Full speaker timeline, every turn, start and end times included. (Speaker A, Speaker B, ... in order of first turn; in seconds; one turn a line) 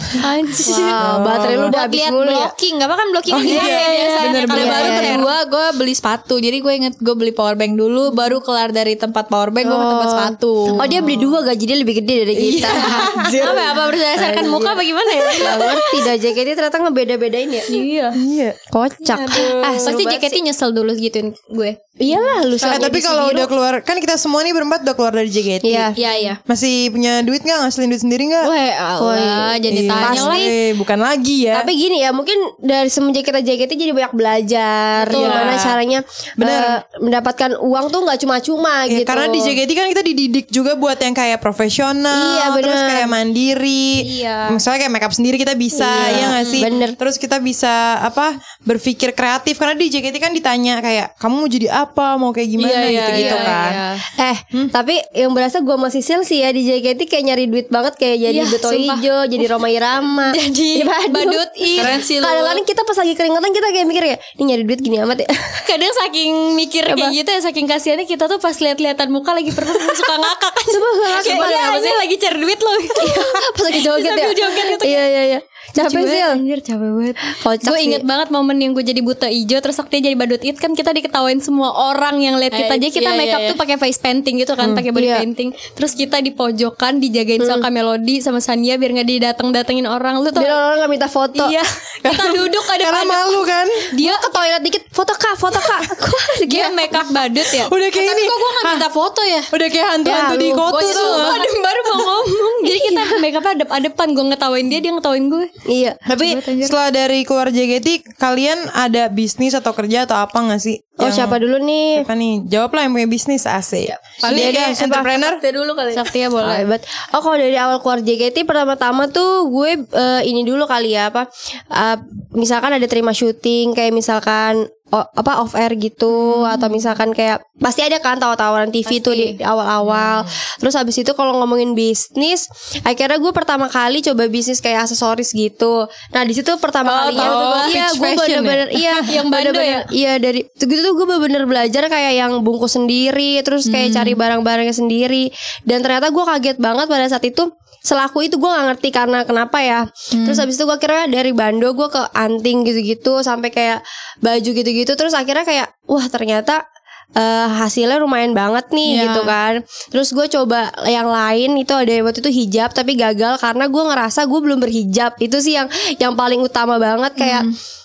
Speaker A: 0.2-5.3
Speaker B: 0.7-0.9
Speaker C: 0.9-2.5
Speaker D: 1.0-1.8
Speaker D: 3.3-4.8
Speaker B: 3.4-10.8
Speaker C: 4.6-5.2
Speaker C: 9.6-17.7
Speaker D: 12.3-13.7
Speaker B: 12.5-13.1
Speaker A: 13.3-16.1
Speaker A: 17.7-18.2
Speaker D: 18.1-18.6
Speaker C: 18.7-20.4
Speaker A: 19.1-21.8
Speaker D: 19.7-19.9
Speaker C: 22.0-23.5
Speaker A: 22.6-22.9
Speaker D: 22.6-25.9
Speaker C: 25.6-26.0
Speaker A: 25.9-26.4
Speaker D: 26.5-28.5
Speaker A: 28.4-30.5
Speaker C: 29.0-30.5
Speaker D: 29.7-31.7
Speaker C: 31.5-39.5
Speaker A: 35.0-35.6
Speaker D: 35.1-35.8
Speaker D: 36.4-36.8
Speaker D: 38.9-53.8
Speaker C: 42.1-43.1
Speaker A: 44.0-44.6
Speaker C: 45.8-47.0
Speaker B: 46.0-46.3
Speaker A: 46.4-46.7
Speaker B: 52.6-53.5
Speaker A: 53.1-54.0
Speaker C: 54.1-65.6
Speaker A: 58.2-59.5
Speaker A: 60.3-62.1
Speaker B: 61.8-62.6
Speaker A: 65.7-75.1
Speaker C: 66.9-67.2
Speaker C: 70.7-72.0
Speaker B: 71.2-71.6
Speaker C: 73.0-76.4
Speaker A: 75.8-90.6
Speaker C: 77.4-78.0
Speaker B: 82.5-83.6
Speaker C: 85.0-85.2
Speaker C: 87.4-87.7
Speaker C: 90.3-91.5
Speaker A: 91.3-94.3
Speaker D: 92.0-93.9
Speaker C: 94.0-97.0
Speaker A: 96.5-98.4
Speaker D: 97.5-98.9
Speaker B: 98.0-99.5
Speaker D: 99.5-101.5
Speaker C: 100.0-100.7
Speaker B: 100.6-101.3
Speaker A: 100.7-105.5
Speaker C: 102.7-103.2
Speaker C: 105.7-106.0
Speaker D: 106.1-111.4
Speaker A: 106.1-106.8
Speaker C: 111.0-112.1
Speaker D: 111.9-115.4
Speaker B: 114.2-116.1
Speaker C: 114.2-115.1
Speaker A: 115.9-116.7
Speaker C: 116.4-156.6
Speaker A: 128.9-129.4
Speaker D: 129.8-130.2
Speaker B: 136.8-137.7
Speaker D: 137.1-139.0
Speaker A: 139.1-139.9
Speaker B: 143.7-144.2
Speaker B: 150.1-150.5
Speaker C: 157.2-167.5
Speaker B: 158.8-159.3
Speaker B: 167.2-167.5